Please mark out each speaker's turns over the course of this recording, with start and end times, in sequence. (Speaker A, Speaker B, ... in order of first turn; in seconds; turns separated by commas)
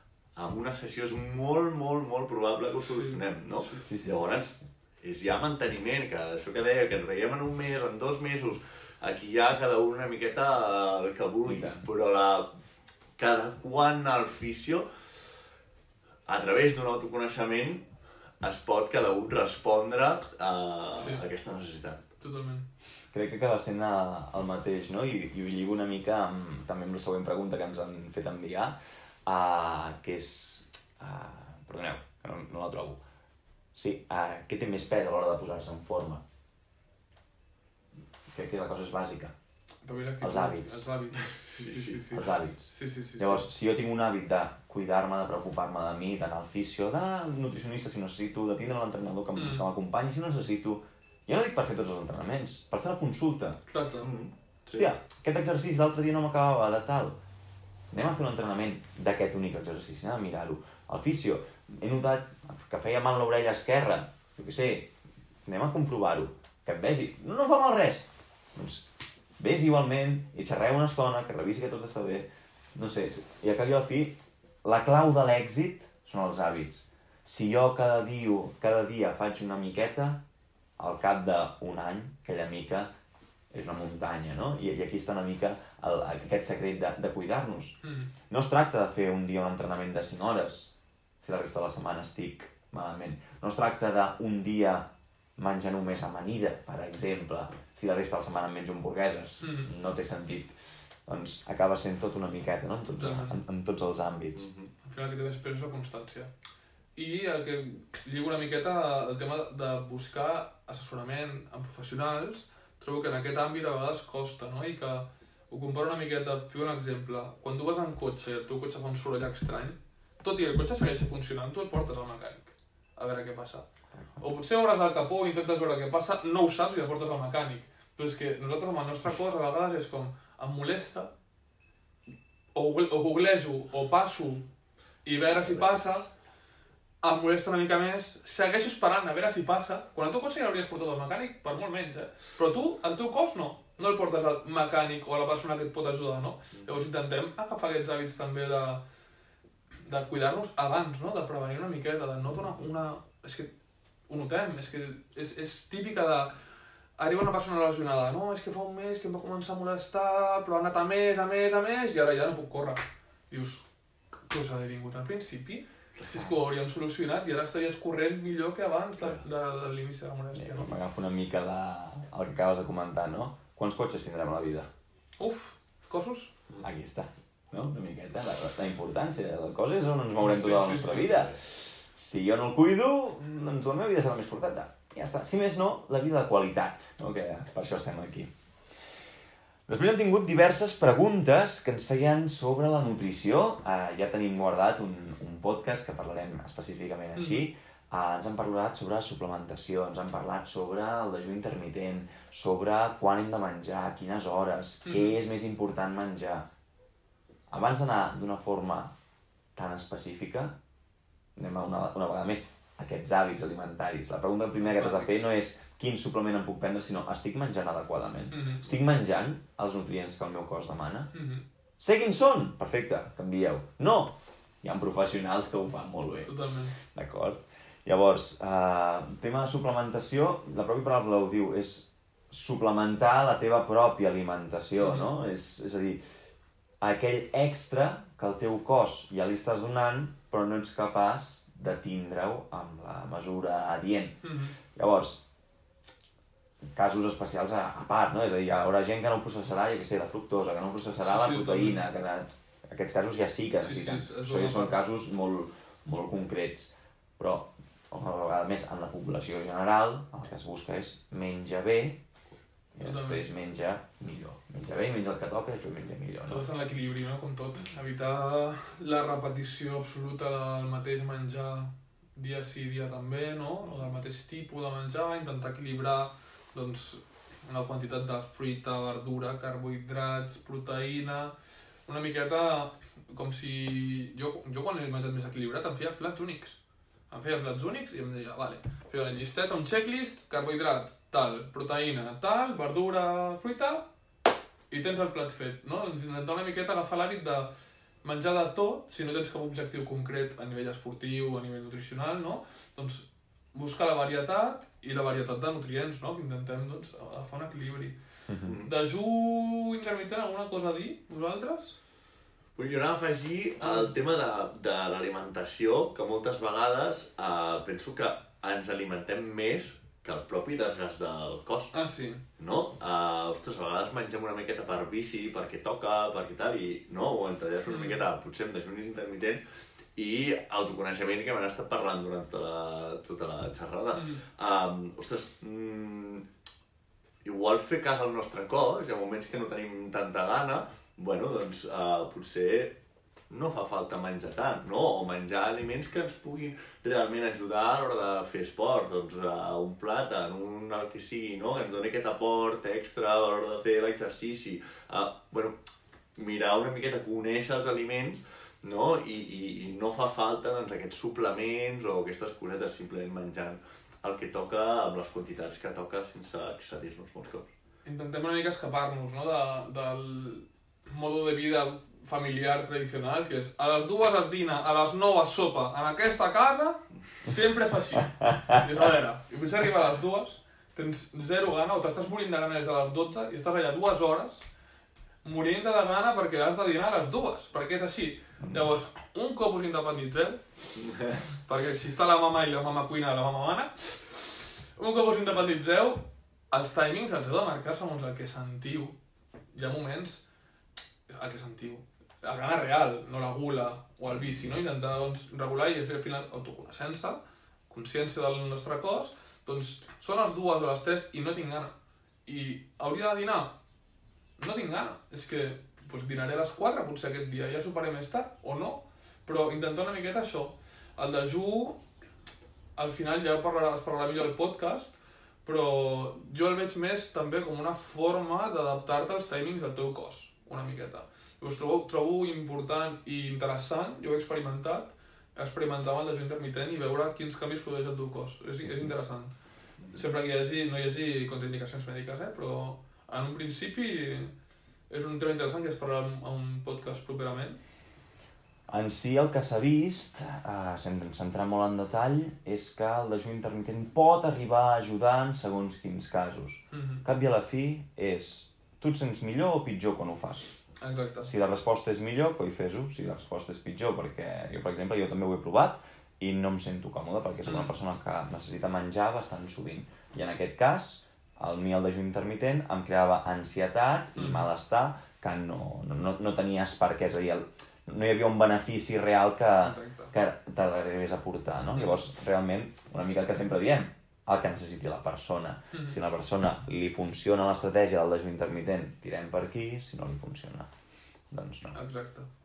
Speaker A: 0.3-12.5, Speaker B: 2.8-3.9, Speaker C: 3.9-4.2, Speaker C: 11.4-11.8, Speaker A: 13.2-14.8, Speaker A: 16.3-17.9, Speaker A: 18.4-22.1, Speaker B: 20.9-21.2, Speaker B: 22.2-22.7, Speaker C: 23.1-33.0, Speaker C: 33.7-36.2, Speaker C: 38.3-39.3, Speaker B: 39.8-43.4, Speaker C: 40.2-40.8, Speaker A: 41.4-42.1, Speaker C: 42.1-53.6, Speaker B: 49.3-49.6, Speaker B: 53.7-54.2, Speaker A: 54.0-54.9, Speaker C: 54.7-57.2, Speaker C: 57.9-64.9, Speaker C: 65.5-68.8, Speaker C: 69.4-80.2, Speaker C: 80.8-82.9, Speaker C: 83.5-87.8, Speaker B: 87.8-88.1, Speaker C: 88.3-90.7, Speaker C: 91.2-100.5, Speaker B: 99.4-99.7, Speaker C: 101.0-104.5, Speaker B: 103.0-103.4, Speaker A: 104.3-104.7, Speaker B: 104.8-106.3, Speaker B: 107.0-123.7, Speaker B: 124.2-131.1, Speaker B: 132.5-134.4, Speaker B: 135.0-136.1, Speaker B: 137.0-148.8, Speaker B: 149.8-153.5, Speaker B: 154.1-156.3, Speaker B: 157.0-163.6, Speaker B: 164.2-170.7, Speaker A: 169.0-169.2, Speaker C: 170.3-174.7, Speaker B: 175.2-176.3, Speaker C: 176.6-188.3, Speaker B: 180.2-181.3, Speaker C: 189.7-206.4, Speaker B: 197.2-197.4, Speaker B: 204.8-205.1, Speaker C: 207.5-208.9, Speaker C: 209.5-210.6, Speaker C: 211.3-221.1, Speaker B: 214.6-215.2, Speaker B: 218.3-218.6, Speaker B: 221.1-221.4, Speaker C: 221.8-236.0, Speaker B: 226.2-226.8, Speaker B: 234.8-235.1, Speaker C: 236.8-245.2, Speaker B: 244.2-244.5, Speaker C: 246.7-262.0, Speaker B: 251.0-251.8, Speaker B: 253.6-254.8, Speaker C: 262.7-266.5, Speaker B: 262.8-263.2, Speaker B: 266.3-281.3, Speaker B: 281.9-286.6, Speaker B: 287.1-293.9, Speaker B: 294.7-297.5, Speaker B: 298.0-307.9, Speaker C: 308.3-308.6, Speaker A: 308.4-308.7, Speaker B: 308.6-311.8, Speaker A: 312.6-321.7, Speaker B: 313.6-313.9, Speaker B: 321.7-322.2, Speaker A: 322.4-329.4, Speaker B: 327.7-328.0, Speaker A: 329.9-336.2, Speaker B: 333.9-334.2, Speaker A: 337.2-342.8, Speaker A: 343.3-355.6, Speaker A: 356.1-367.5, Speaker B: 367.8-384.5, Speaker B: 385.2-390.6, Speaker C: 388.4-388.7, Speaker B: 391.4-398.9, Speaker B: 399.5-400.2, Speaker B: 401.1-411.7, Speaker B: 412.2-413.5, Speaker B: 414.4-421.8, Speaker B: 422.8-439.3, Speaker B: 439.9-444.3, Speaker B: 444.9-447.6, Speaker C: 448.7-460.5, Speaker B: 456.7-457.0, Speaker B: 460.8-461.3, Speaker C: 461.2-490.7, Speaker B: 467.4-467.7, Speaker B: 474.1-474.5, Speaker B: 479.6-480.1, Speaker C: 491.3-491.8, Speaker B: 491.7-492.3